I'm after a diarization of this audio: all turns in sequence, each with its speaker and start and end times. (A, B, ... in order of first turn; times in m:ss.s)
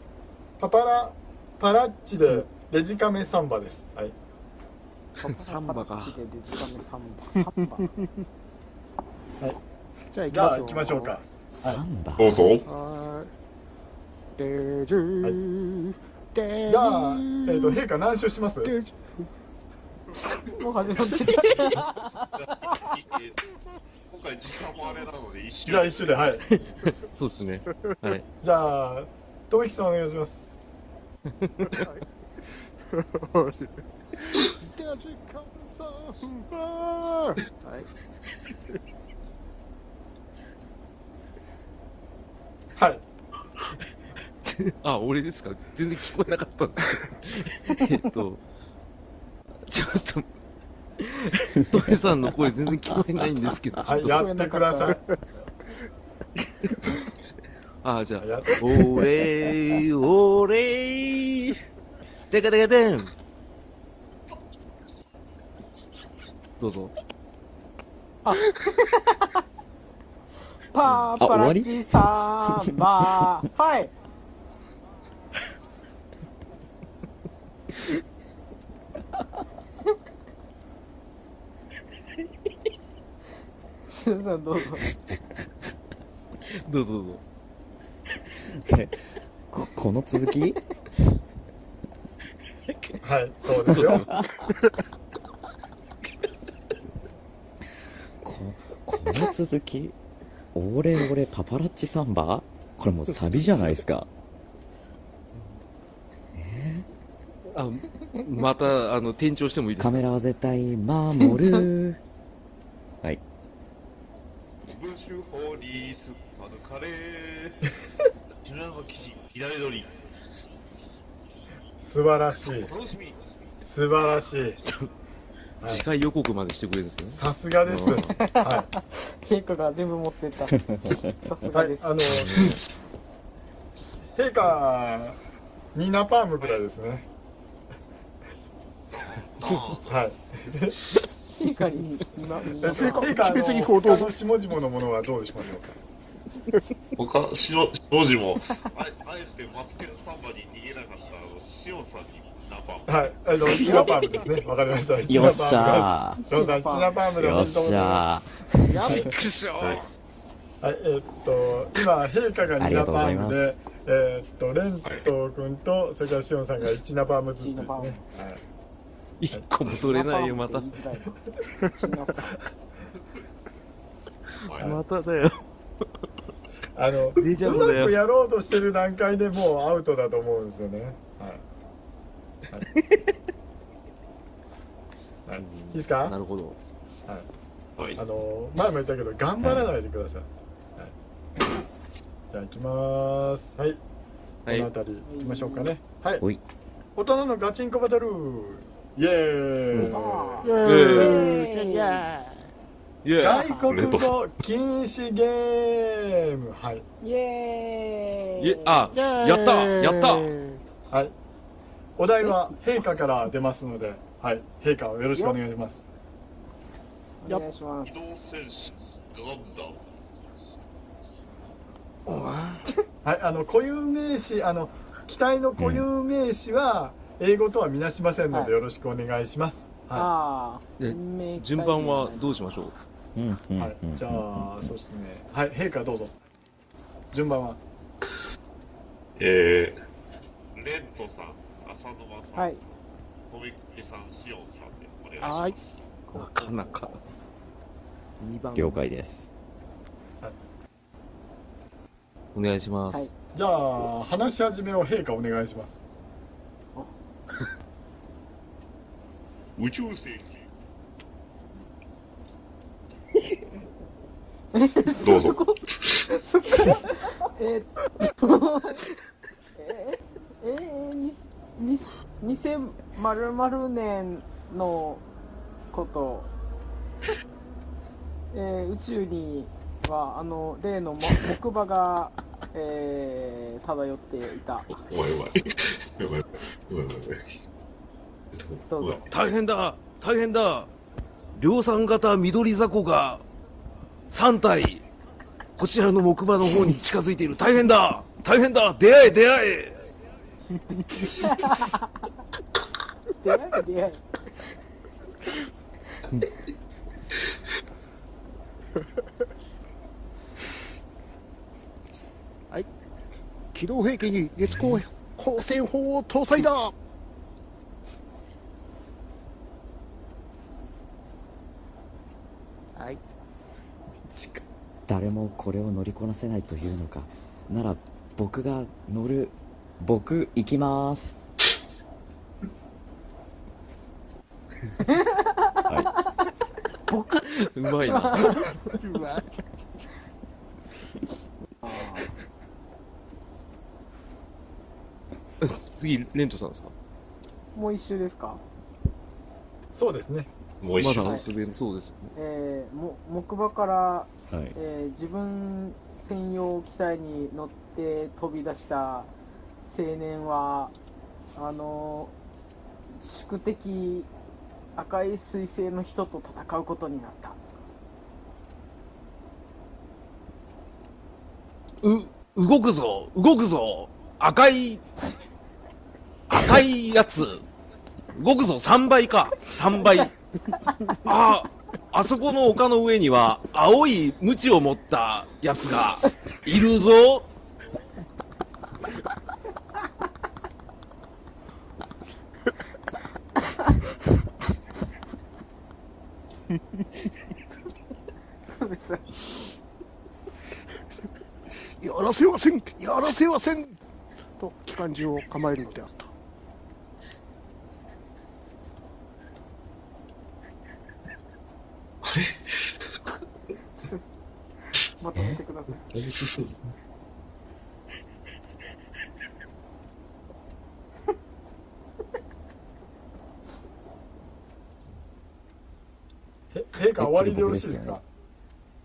0:00.6-0:04.1 A
0:05.2-0:07.9 B
0:05.2-0:06.2 C
0:10.1-0:11.1 D
0:10.3-0:11.8 A
0:11.6-0:12.4 E
0:12.2-0:12.7 F
0:12.6-0:13.3 D
0:14.4-0:17.8 D
0:16.7-0:18.7 A
0:18.6-0:19.1 D
0:20.3-0:21.8 F
0:20.4-0:22.9 B
0:22.3-0:23.4 F
0:24.1-0:26.4 F
0:25.6-0:26.6 A
0:26.5-0:28.2 C
0:28.4-0:30.4 A
0:31.4-0:31.9 C
0:31.6-0:32.0 D
0:32.9-0:37.9 D
0:42.8-0:43.0 A
0:44.4-0:48.4 C
0:49.7-0:50.2 C
0:51.0-0:54.3 C
0:51.6-0:51.9 E
0:53.8-0:55.0 A
0:53.9-0:55.0 B
0:57.8-1:01.6 C
0:58.2-0:58.8 A
1:02.3-1:03.1 C
1:06.6-1:06.9 C
1:08.2-1:09.4 B
1:10.7-1:13.9 B
1:11.2-1:13.3 E
1:23.9-1:24.9 B
1:26.5-1:27.2 C
1:28.5-1:29.0 E
1:29.5-1:30.6 E
1:32.7-1:34.1 C
1:33.0-1:34.1 A
1:33.8-1:34.3 E
1:38.2-1:40.0 E
1:40.5-1:44.1 E
1:46.3-1:46.9 E
1:47.5-1:50.1 C
1:49.8-1:52.0 E
1:51.2-1:51.7 B
1:54.6-1:57.7 F
1:58.4-1:59.9 F
2:01.8-2:02.7 A
2:02.4-2:03.4 F
2:03.6-2:04.6 A
2:05.6-2:08.1 C
2:07.1-2:08.7 A
2:08.1-2:12.0 B
2:10.7-2:11.0 E
2:11.5-2:12.6 A
2:12.1-2:12.5 C
2:14.1-2:15.2 A
2:15.7-2:17.0 A
2:18.9-2:20.0 F
2:19.9-2:20.8 A
2:21.4-2:23.2 B
2:22.6-2:25.8 A
2:22.6-2:24.1 D
2:27.0-2:33.1 F
2:32.9-2:38.0 A
2:33.7-2:34.0 D
2:35.1-2:36.2 E
2:36.2-2:37.0 B
2:37.2-2:39.1 E
2:38.7-2:39.0 D
2:38.8-2:40.0 C
2:39.6-2:39.8 F
2:40.6-2:48.4 A
2:42.6-2:43.5 E
2:47.4-2:48.0 B
2:49.2-2:50.7 C
2:49.7-2:52.3 B
2:54.4-2:54.8 F
2:54.5-2:55.4 C
2:56.7-3:01.4 A
2:57.2-2:58.0 C
3:05.3-3:06.1 A
3:05.4-3:06.6 C
3:08.0-3:10.9 A
3:09.4-3:09.7 E
3:12.3-3:13.8 A
3:14.5-3:16.2 A
3:15.0-3:15.7 B
3:17.0-3:20.5 A
3:19.7-3:20.0 C
3:19.8-3:22.0 B
3:20.4-3:22.5 D
3:20.6-3:21.3 C
3:23.0-3:23.4 C
3:23.2-3:26.8 A
3:23.7-3:24.1 F
3:27.0-3:28.9 B
3:28.4-3:30.3 C
3:28.9-3:30.6 D
3:32.0-3:35.8 A
3:37.2-3:38.1 B
3:37.8-3:39.8 F
3:42.1-3:42.6 C
3:43.0-3:50.1 A
3:45.6-3:45.9 E
3:49.9-3:52.7 B
3:50.8-3:52.7 C
3:53.1-3:54.7 E
3:53.6-3:56.1 A
3:57.1-3:57.6 A
3:59.2-3:59.8 F
4:00.5-4:02.7 F
4:02.4-4:02.6 B
4:03.3-4:05.8 F
4:05.2-4:05.6 D
4:06.1-4:07.0 C
4:08.2-4:08.8 C
4:08.5-4:09.3 E
4:12.3-4:13.1 C
4:13.3-4:15.8 A
4:19.6-4:20.4 F
4:24.5-4:28.8 B
4:25.0-4:25.5 F
4:29.6-4:35.0 B
4:35.7-4:36.3 B
4:38.3-4:44.7 B
4:44.7-4:47.4 F
4:48.3-4:49.0 F
4:48.7-4:49.1 B
4:49.1-4:50.7 C
4:51.4-4:53.2 C
4:54.1-4:54.8 C
4:55.6-4:59.8 C
5:01.0-5:02.1 B
5:03.2-5:04.0 B
5:13.5-5:16.7 D
5:14.4-5:14.8 E
5:22.8-5:23.0 D
5:24.1-5:24.4 C
5:24.9-5:31.2 E
5:34.8-5:36.3 B
5:36.9-5:38.5 B
5:37.3-5:38.6 C
5:38.5-5:39.4 D
5:41.6-5:42.1 B
5:45.4-5:46.7 C
5:47.5-5:48.4 B
5:49.7-5:50.3 A
5:50.6-5:51.2 F
5:50.8-5:52.1 C
5:52.1-5:59.1 B
5:54.3-5:54.6 E
5:59.6-6:00.7 B
6:01.4-6:02.1 B
6:02.9-6:04.1 B
6:04.8-6:07.4 B
6:11.8-6:15.0 C
6:16.3-6:17.4 C
6:18.1-6:20.1 C
6:21.0-6:27.3 C
6:38.5-6:39.5 B
6:41.8-6:43.8 D
6:44.4-6:46.1 D
6:52.0-6:52.6 F
6:55.0-6:55.9 B
6:56.0-6:56.5 F
7:06.5-7:08.0 A
7:07.0-7:08.0 E